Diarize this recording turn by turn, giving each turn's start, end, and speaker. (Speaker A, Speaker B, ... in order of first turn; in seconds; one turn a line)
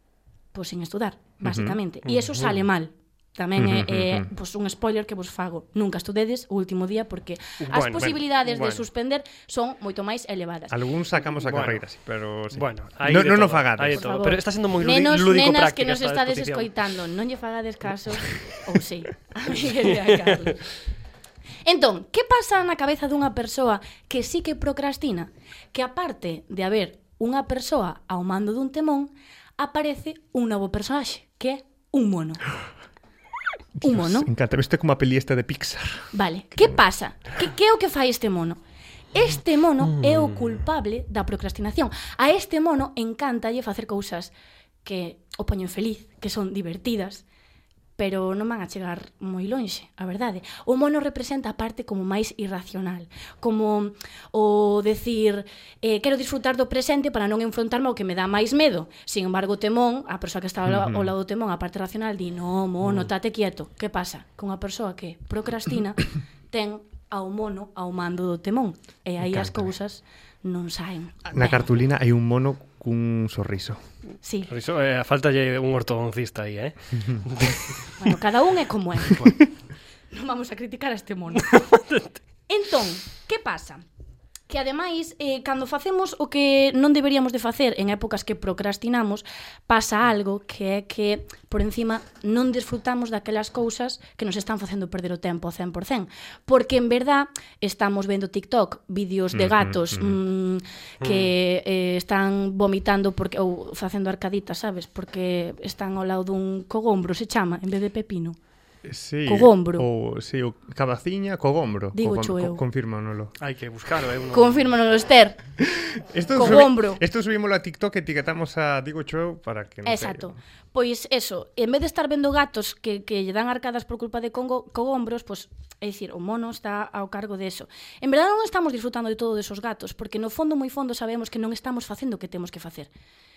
Speaker A: 0.5-10.8
Speaker B: 1.4-1.8
Speaker C: 2.0-2.6
Speaker B: 3.6-4.3
Speaker C: 7.6-8.8
Speaker B: 10.7-14.1
Speaker C: 11.3-11.8
Speaker C: 12.5-16.7
Speaker A: 13.9-20.6
Speaker C: 20.1-20.5
Speaker A: 21.6-32.4
Speaker B: 33.8-36.1
Speaker A: 33.8-34.3
Speaker A: 36.1-38.6
Speaker A: 39.1-44.3
Speaker A: 44.8-47.2
Speaker A: 48.0-71.7
Speaker B: 60.6-61.1
Speaker B: 69.2-69.7
Speaker B: 71.2-73.8
Speaker A: 74.2-74.5
Speaker C: 74.5-77.8
Speaker A: 78.0-79.3
Speaker A: 80.1-81.6
Speaker C: 81.4-82.2
Speaker A: 82.5-83.8
Speaker A: 84.5-108.4
Speaker B: 99.3-100.2
Speaker C: 101.0-101.3
Speaker B: 108.8-113.3
Speaker A: 109.3-109.8
Speaker A: 112.0-112.6
Speaker C: 113.4-114.6
Speaker A: 114.3-115.4
Speaker B: 115.8-120.4
Speaker A: 116.3-117.0
Speaker A: 119.8-132.9